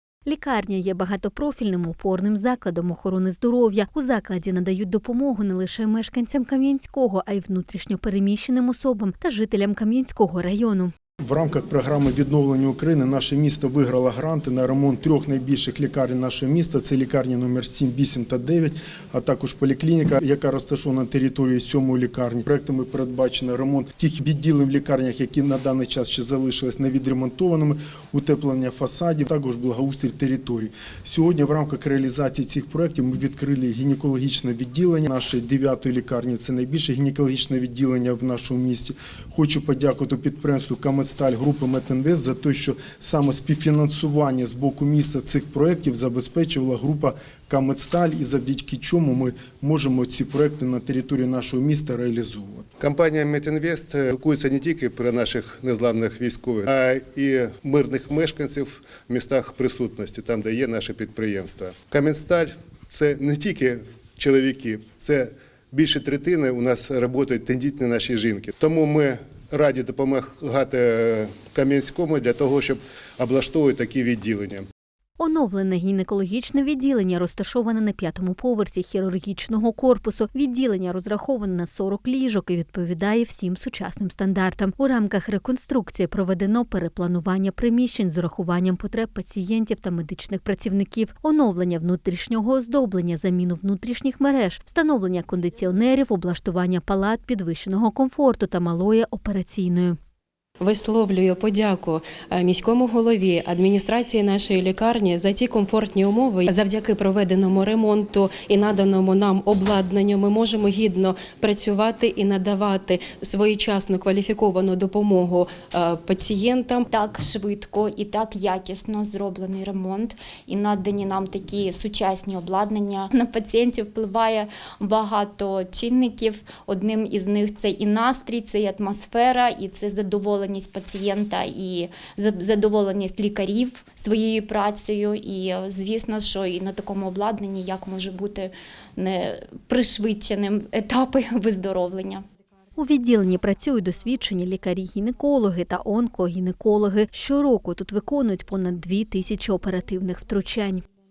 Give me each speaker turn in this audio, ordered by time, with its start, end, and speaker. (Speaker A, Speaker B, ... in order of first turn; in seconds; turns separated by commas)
Speaker A: 0.2-10.9, Speaker B: 11.2-52.6, Speaker C: 52.8-74.6, Speaker A: 75.2-100.0, Speaker D: 100.6-116.8, Speaker E: 116.9-142.2, Speaker A: 142.8-150.8